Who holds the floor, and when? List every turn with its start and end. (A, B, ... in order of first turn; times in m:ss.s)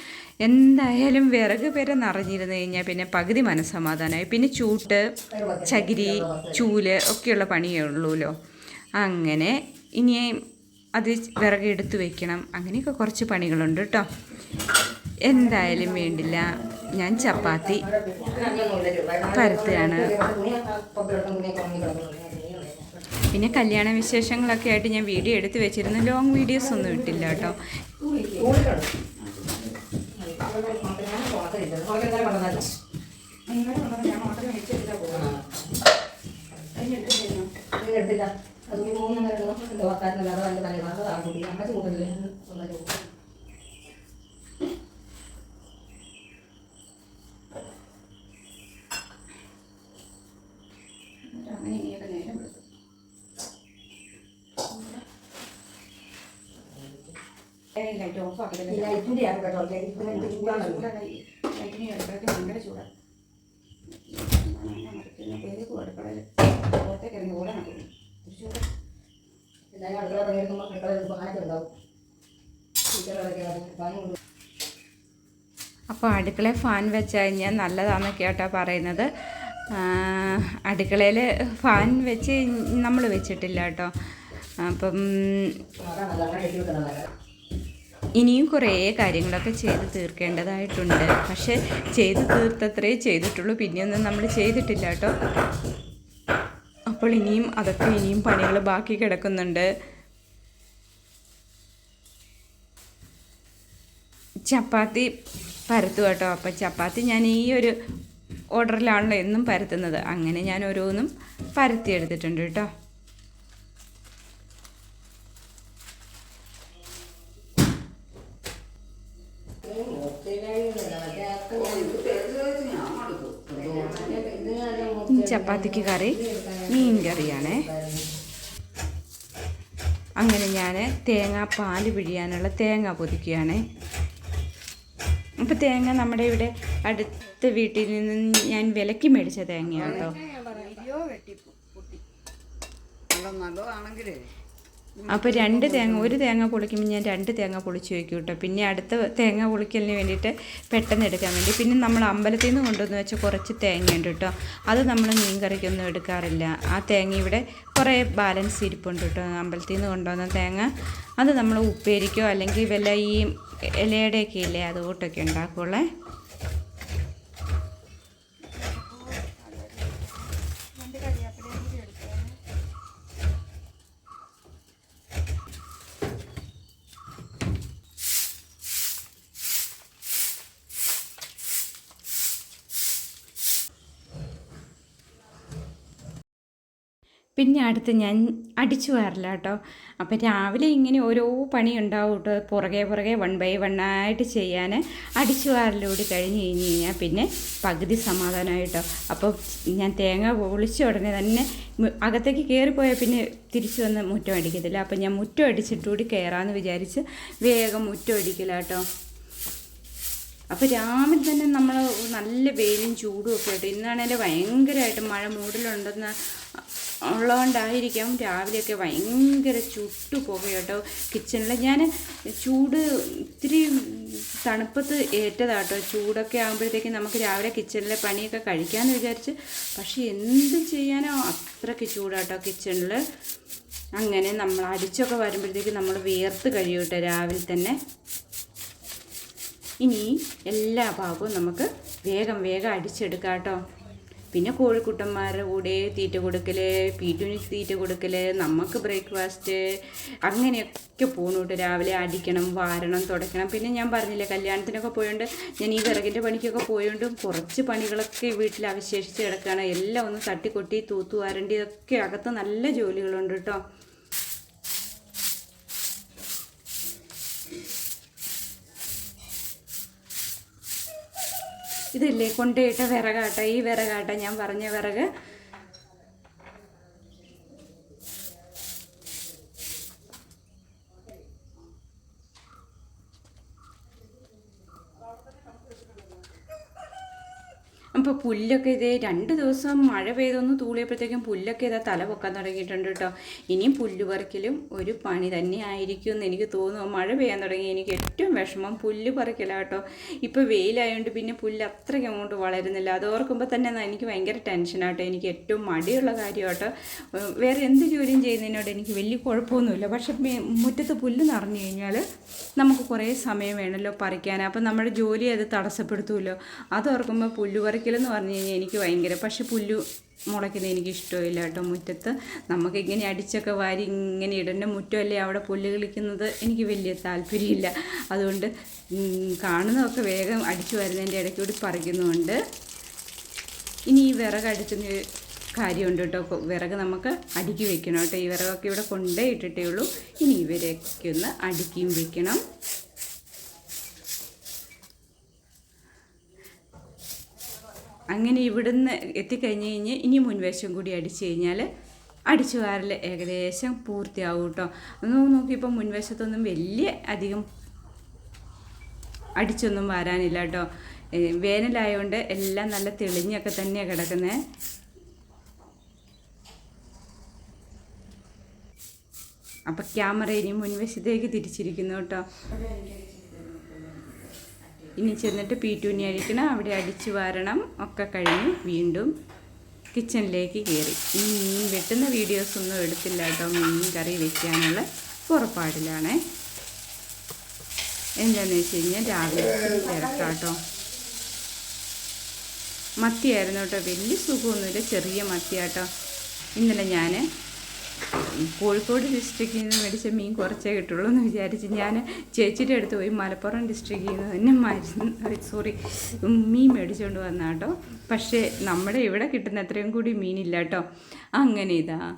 0:00.4-0:05.1 A
0:05.3-0:06.6 B
0:05.6-0:08.3 A
0:09.0-0:10.3 A
0:11.0-0:14.0 A
0:14.3-0:17.1 C
0:15.2-0:17.8 A
0:17.2-0:23.5 B
0:18.2-0:18.6 C
0:19.3-0:20.1 A
0:23.3-0:27.6 A
0:26.5-0:28.6 C
0:28.4-0:28.9 B
0:29.2-0:29.8 C
0:30.1-0:32.8 B
0:33.5-0:35.3 C
0:35.1-0:35.7 B
0:36.7-0:37.5 C
0:37.7-0:43.0 B
0:51.3-0:52.6 C
0:54.7-0:55.0 C
0:56.7-0:57.1 B
0:57.8-0:59.0 C
0:58.7-1:00.9 B
1:00.0-1:02.9 C
1:03.9-1:08.6 C
1:09.7-1:11.7 B
1:12.9-1:14.2 B
1:15.9-1:23.9 A
1:24.6-1:25.5 A
1:25.8-1:27.1 B
1:28.2-1:35.1 A
1:36.9-1:39.7 A
1:44.5-1:45.1 A
1:45.7-1:47.7 A
1:48.5-1:52.7 A
1:59.6-2:02.1 B
2:01.5-2:04.4 D
2:03.5-2:08.1 B
2:05.1-2:07.6 A
2:10.2-2:13.6 A
2:15.4-2:20.2 A
2:19.7-2:21.8 D
2:19.7-2:20.8 B
2:23.1-2:24.2 D
2:25.0-2:26.2 D
2:25.1-2:40.7 A
2:41.2-2:43.3 A
2:43.8-2:45.8 A
2:48.5-2:52.4 C
3:07.4-3:28.8 A
3:30.5-3:36.1 A
3:37.1-3:41.9 A
3:42.4-3:53.0 A
3:54.0-3:57.8 A
3:59.8-4:03.6 A
4:04.3-4:09.6 A
4:10.2-4:23.6 A
4:31.9-4:35.1 A
4:47.9-5:12.0 A
5:12.6-5:32.4 A
5:33.9-5:35.0 A
5:35.6-5:42.4 A
5:48.1-5:51.7 A
5:52.3-5:57.4 A
5:59.4-6:00.7 A
6:01.2-6:04.4 A
6:09.7-6:12.3 A
6:12.5-6:14.5 C
6:15.0-6:19.1 A
6:19.9-6:26.2 A
6:28.2-6:30.6 A
6:29.3-6:30.0 D
6:33.0-6:35.9 A
6:36.6-6:37.2 A
6:38.2-6:50.8 A
6:51.4-6:52.0 A